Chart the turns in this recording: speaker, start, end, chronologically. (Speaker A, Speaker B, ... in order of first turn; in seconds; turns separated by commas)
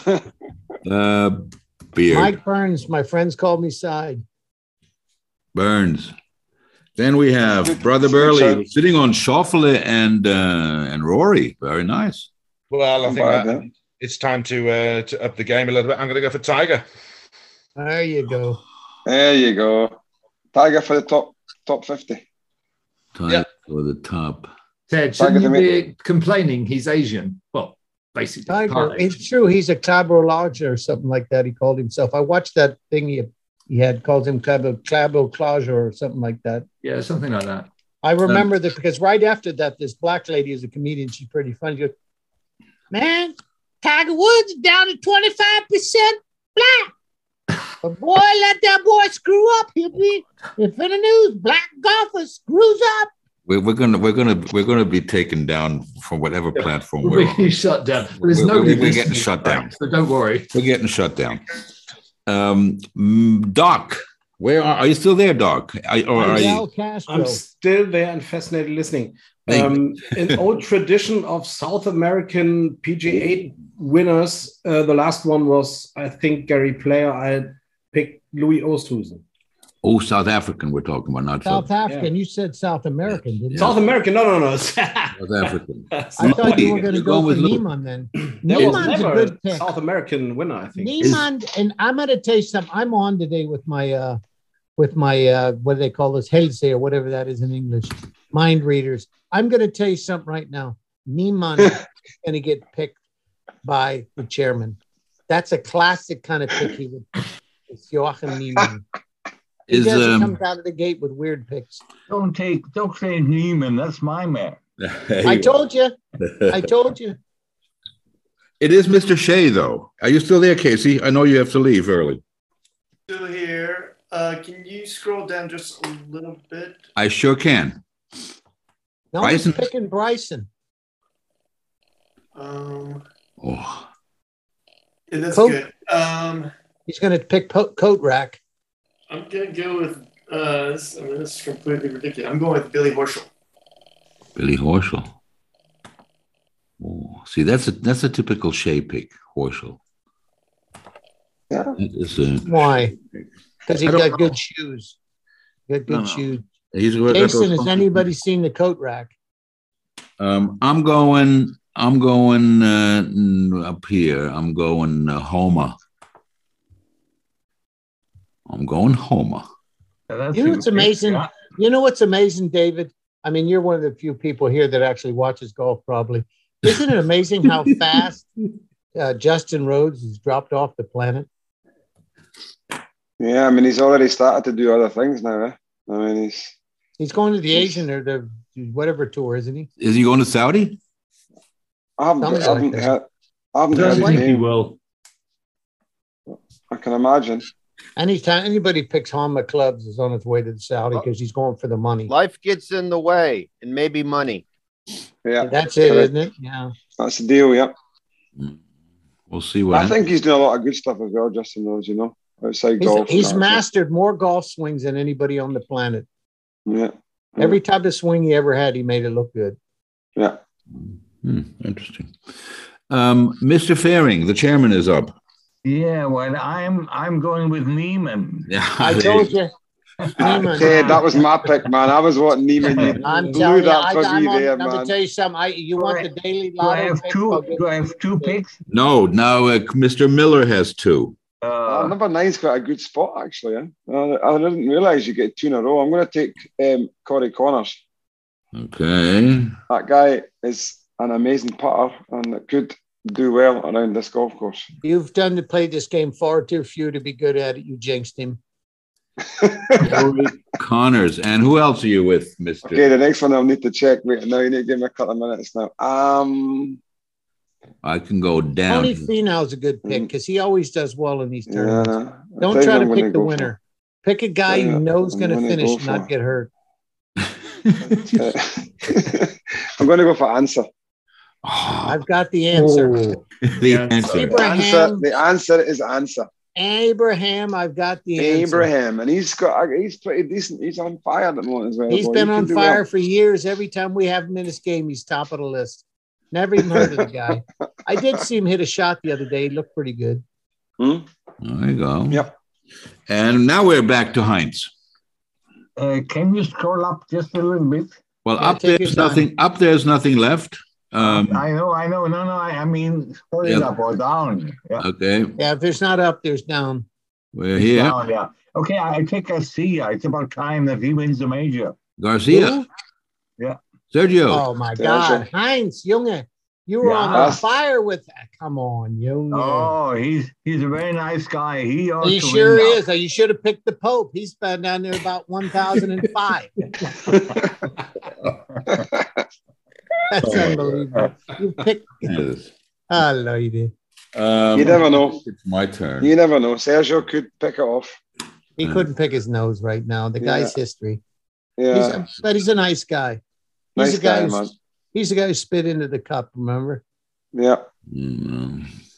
Speaker A: 0.8-2.4, Speaker B: 2.1-4.2, Speaker A: 5.5-6.1, Speaker A: 7.0-12.3, Speaker C: 7.6-8.7, Speaker D: 12.7-16.8, Speaker C: 13.0-13.6, Speaker B: 17.8-18.6, Speaker C: 19.1-20.0, Speaker C: 20.5-22.2, Speaker A: 23.1-24.5, Speaker E: 24.9-29.2, Speaker C: 25.2-25.7, Speaker B: 28.5-36.7, Speaker E: 36.8-37.7, Speaker B: 38.0-41.9, Speaker B: 42.9-46.9, Speaker B: 47.8-53.1, Speaker A: 53.5-57.5, Speaker E: 56.6-60.5, Speaker A: 58.2-59.7, Speaker A: 60.5-61.4, Speaker A: 62.3-66.7, Speaker B: 66.2-67.4, Speaker F: 67.1-79.2, Speaker A: 69.5-70.4, Speaker A: 79.8-81.7, Speaker B: 81.5-83.8, Speaker F: 81.8-82.1, Speaker A: 83.5-83.8, Speaker F: 83.6-86.8, Speaker A: 85.2-87.6, Speaker B: 86.2-89.7, Speaker F: 88.4-91.1, Speaker A: 88.6-89.0, Speaker B: 90.8-94.2, Speaker A: 91.0-91.3, Speaker B: 94.8-103.0, Speaker B: 103.6-104.8, Speaker B: 105.3-107.2, Speaker B: 107.7-108.8, Speaker A: 109.7-110.4, Speaker B: 109.7-111.8, Speaker G: 112.1-114.6, Speaker A: 114.8-115.6, Speaker B: 115.2-116.0, Speaker A: 116.2-116.7, Speaker B: 116.5-117.2, Speaker A: 118.6-122.2, Speaker H: 123.1-126.8, Speaker A: 127.0-127.8, Speaker B: 129.1-130.5, Speaker A: 129.2-129.7, Speaker H: 132.3-133.0, Speaker A: 133.4-133.9, Speaker H: 135.1-136.5, Speaker B: 135.3-135.6, Speaker B: 136.9-138.4, Speaker H: 139.1-143.3, Speaker A: 144.4-145.1, Speaker A: 146.8-149.8, Speaker C: 151.5-151.8, Speaker A: 151.8-153.3, Speaker B: 152.5-152.9, Speaker B: 153.7-155.0, Speaker A: 153.8-154.3, Speaker B: 155.7-156.4, Speaker A: 155.9-158.1, Speaker B: 157.1-159.1, Speaker A: 160.2-165.8, Speaker A: 168.5-169.4, Speaker G: 170.1-171.3, Speaker B: 170.3-178.3, Speaker B: 178.9-181.3, Speaker C: 183.2-186.5, Speaker B: 187.0-189.7, Speaker A: 189.8-190.8, Speaker C: 192.0-194.5, Speaker B: 192.2-192.9, Speaker E: 193.7-194.8, Speaker B: 193.9-194.2, Speaker C: 196.3-197.5, Speaker B: 198.0-202.1, Speaker I: 202.1-204.4, Speaker C: 205.2-206.1, Speaker B: 205.4-206.7, Speaker C: 207.0-207.7, Speaker A: 209.3-210.0, Speaker C: 209.7-213.6, Speaker B: 212.8-216.1, Speaker C: 216.7-217.6, Speaker B: 217.4-219.6, Speaker A: 220.8-222.2, Speaker A: 222.9-225.1, Speaker G: 225.7-228.5, Speaker A: 228.5-229.3, Speaker B: 228.8-229.5, Speaker B: 230.2-231.5, Speaker C: 230.2-234.9, Speaker G: 230.2-231.0, Speaker B: 233.0-237.7, Speaker G: 235.8-236.1, Speaker G: 236.6-238.6, Speaker A: 238.7-241.2, Speaker G: 241.4-241.9, Speaker C: 241.7-247.8, Speaker A: 248.5-249.5, Speaker C: 249.7-254.7, Speaker B: 254.8-258.4, Speaker C: 259.4-260.0, Speaker A: 259.8-262.9, Speaker C: 262.7-266.8, Speaker A: 267.8-269.1, Speaker B: 268.7-276.5, Speaker C: 271.5-273.5, Speaker C: 274.5-276.1, Speaker A: 277.6-278.2, Speaker C: 277.9-280.7, Speaker A: 281.4-282.0, Speaker B: 281.9-283.2, Speaker E: 282.6-284.1, Speaker A: 283.5-284.4, Speaker B: 284.1-285.0, Speaker C: 284.3-286.3, Speaker B: 286.6-288.7, Speaker C: 288.2-292.8, Speaker B: 291.9-300.2, Speaker C: 300.8-301.1, Speaker A: 301.4-302.3, Speaker A: 303.1-304.7, Speaker G: 305.8-307.9, Speaker A: 308.2-311.5, Speaker B: 308.4-309.3, Speaker G: 311.0-314.8, Speaker A: 313.4-313.7, Speaker A: 314.8-315.4, Speaker B: 315.4-316.9, Speaker A: 317.3-318.0, Speaker G: 317.6-321.8, Speaker A: 322.0-322.6, Speaker B: 322.3-322.6, Speaker A: 323.9-324.4, Speaker B: 324.3-329.8, Speaker C: 324.8-325.3, Speaker G: 326.8-327.4, Speaker C: 327.1-327.4, Speaker G: 329.3-332.8, Speaker B: 332.0-336.5, Speaker C: 337.1-337.4, Speaker C: 338.7-339.1, Speaker B: 340.1-342.1, Speaker A: 340.2-340.7, Speaker A: 342.0-342.5, Speaker B: 342.9-343.7, Speaker A: 344.1-346.1, Speaker C: 344.5-345.2, Speaker C: 346.0-348.0, Speaker B: 348.6-351.0, Speaker A: 348.6-348.9, Speaker C: 350.2-350.5, Speaker C: 351.6-352.0, Speaker B: 351.7-353.2, Speaker C: 353.8-354.5, Speaker B: 353.8-354.4, Speaker B: 354.9-356.8, Speaker C: 357.3-357.7, Speaker A: 357.9-358.7